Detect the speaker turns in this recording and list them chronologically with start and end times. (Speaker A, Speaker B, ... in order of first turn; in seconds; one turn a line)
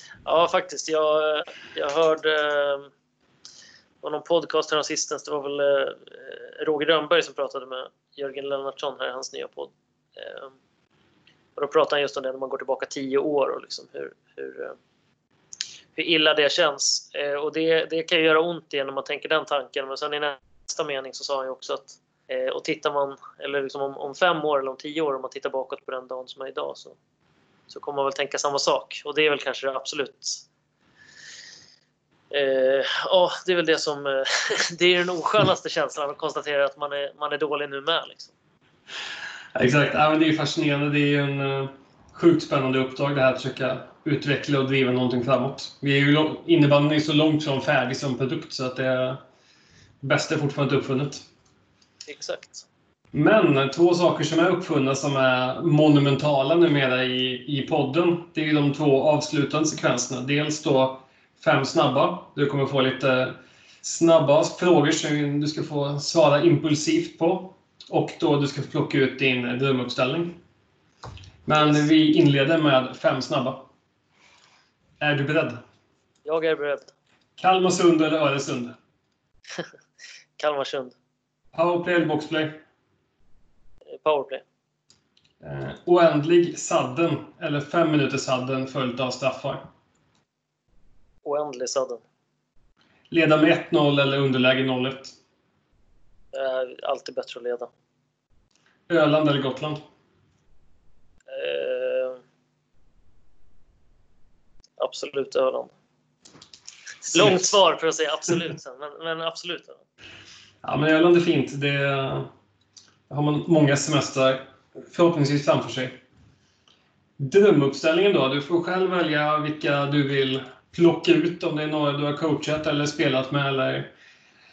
Speaker A: 0.2-2.9
Speaker A: 4.0-10.5
Speaker A: 11.6-14.8
Speaker A: 15.9-27.0
Speaker A: 27.7-30.4
Speaker A: 32.3-38.3
Speaker B: 39.5-49.2
Speaker B: 50.0-51.2
Speaker A: 52.1-52.7
Speaker B: 53.1-70.4
Speaker B: 71.5-73.7
Speaker A: 71.6-71.8
Speaker B: 75.0-75.6
Speaker A: 76.2-76.9
Speaker B: 77.4-78.7
Speaker A: 80.4-81.0
Speaker B: 81.5-82.6
Speaker A: 83.9-84.5
Speaker B: 85.4-89.7
Speaker A: 91.2-92.0
Speaker B: 93.1-95.1
Speaker A: 96.3-97.7
Speaker B: 98.9-99.8
Speaker A: 101.3-102.2
Speaker A: 104.8-105.7
Speaker A: 107.1-109.8
Speaker B: 107.2-107.5
Speaker B: 110.6-112.3
Speaker B: 113.1-116.0
Speaker B: 117.2-123.9